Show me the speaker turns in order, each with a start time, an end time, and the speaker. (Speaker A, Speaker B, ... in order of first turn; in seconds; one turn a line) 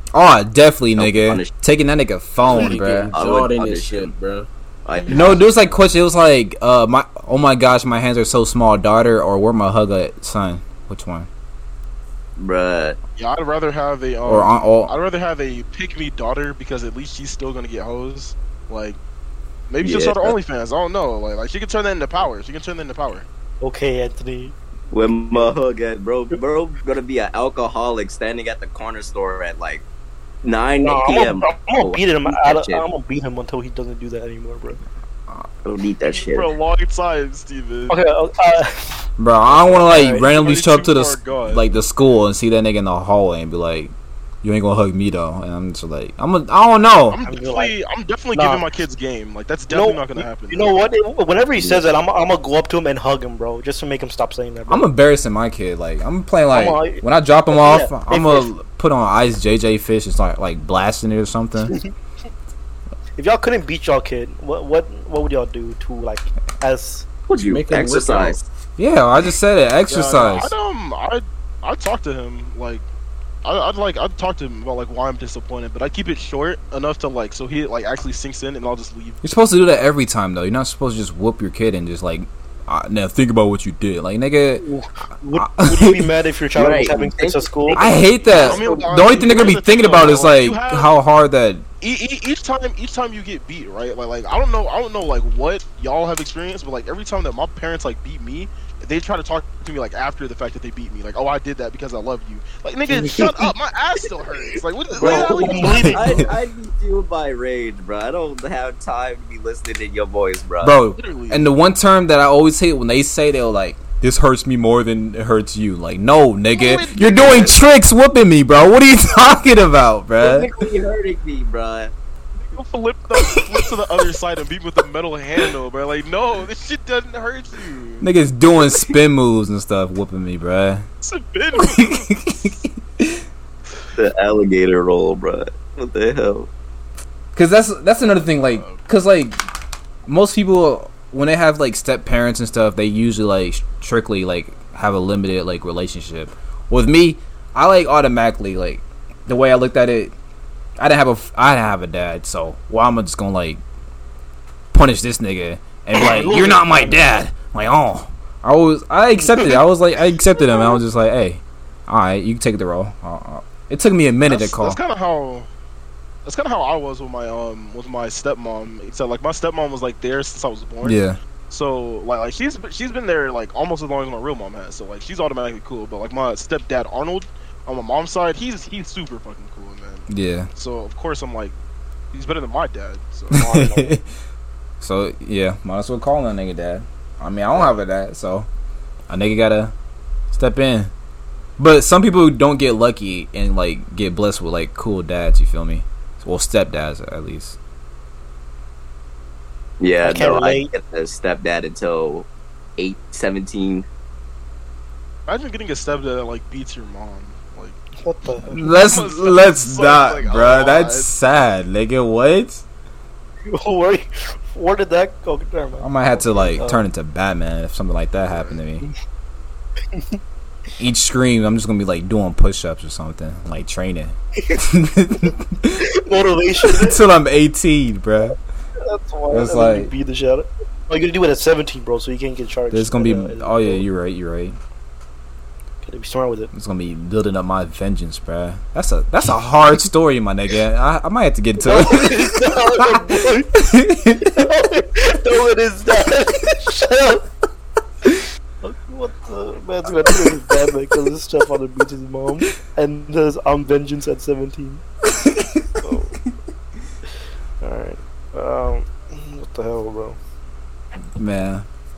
Speaker A: 0.1-3.1
Speaker B: 1.0-1.5
Speaker C: 2.4-4.5
Speaker B: 2.6-4.1
Speaker B: 4.8-5.4
Speaker C: 5.0-5.4
Speaker A: 5.1-11.3
Speaker B: 12.4-13.0
Speaker D: 13.2-19.0
Speaker A: 14.2-14.9
Speaker D: 19.7-23.3
Speaker B: 19.8-20.3
Speaker E: 23.6-24.5
Speaker B: 24.9-29.8
Speaker B: 30.4-32.8
Speaker E: 30.8-34.8
Speaker B: 35.6-36.5
Speaker D: 36.0-38.0
Speaker E: 37.9-40.2
Speaker A: 39.2-43.9
Speaker D: 40.1-41.6
Speaker A: 44.4-47.2
Speaker D: 47.0-50.7
Speaker E: 47.2-47.7
Speaker E: 48.3-48.6
Speaker E: 49.7-54.9
Speaker B: 51.6-51.9
Speaker A: 54.7-61.7
Speaker E: 56.5-58.5
Speaker E: 61.6-61.9
Speaker E: 63.1-67.1
Speaker B: 67.3-68.4
Speaker C: 67.3-68.4
Speaker A: 68.8-70.5
Speaker D: 69.9-72.8
Speaker D: 73.4-79.3
Speaker A: 79.2-84.6
Speaker E: 84.5-88.0
Speaker A: 85.3-86.1
Speaker B: 86.5-87.8
Speaker A: 87.7-91.6
Speaker B: 88.3-89.3
Speaker D: 88.3-90.9
Speaker D: 91.8-106.3
Speaker E: 105.0-106.3
Speaker B: 105.0-110.7
Speaker A: 110.6-120.5
Speaker D: 111.0-111.5
Speaker D: 116.5-117.6
Speaker B: 120.2-121.9
Speaker D: 122.4-128.1
Speaker A: 128.0-130.8
Speaker D: 131.0-132.5
Speaker A: 131.6-133.2
Speaker B: 133.9-136.5
Speaker A: 137.3-139.4
Speaker D: 138.0-138.8
Speaker A: 140.1-150.1
Speaker A: 150.8-153.6
Speaker A: 154.7-164.8
Speaker E: 155.9-157.0
Speaker E: 159.2-159.6
Speaker D: 164.3-165.5
Speaker D: 166.2-181.5
Speaker A: 170.8-171.2
Speaker A: 180.1-180.5
Speaker D: 182.1-183.5
Speaker E: 183.3-184.0
Speaker A: 183.3-184.0
Speaker A: 184.8-188.5
Speaker A: 189.1-189.7
Speaker A: 190.3-190.9
Speaker A: 191.6-197.6
Speaker B: 199.8-203.8
Speaker E: 200.0-200.7
Speaker D: 205.3-207.8
Speaker E: 208.0-208.6
Speaker A: 208.5-212.6
Speaker D: 208.5-211.1
Speaker E: 213.5-216.8
Speaker A: 215.8-218.9
Speaker D: 218.2-218.6
Speaker A: 220.8-225.8
Speaker E: 225.2-227.0
Speaker A: 226.6-228.4
Speaker E: 228.8-233.8
Speaker A: 229.3-229.9
Speaker A: 232.7-234.6
Speaker E: 235.8-236.5
Speaker A: 236.5-244.4
Speaker E: 241.6-243.6
Speaker E: 244.2-247.3
Speaker E: 248.1-254.8
Speaker E: 255.8-256.2
Speaker E: 257.6-260.2
Speaker A: 261.1-261.6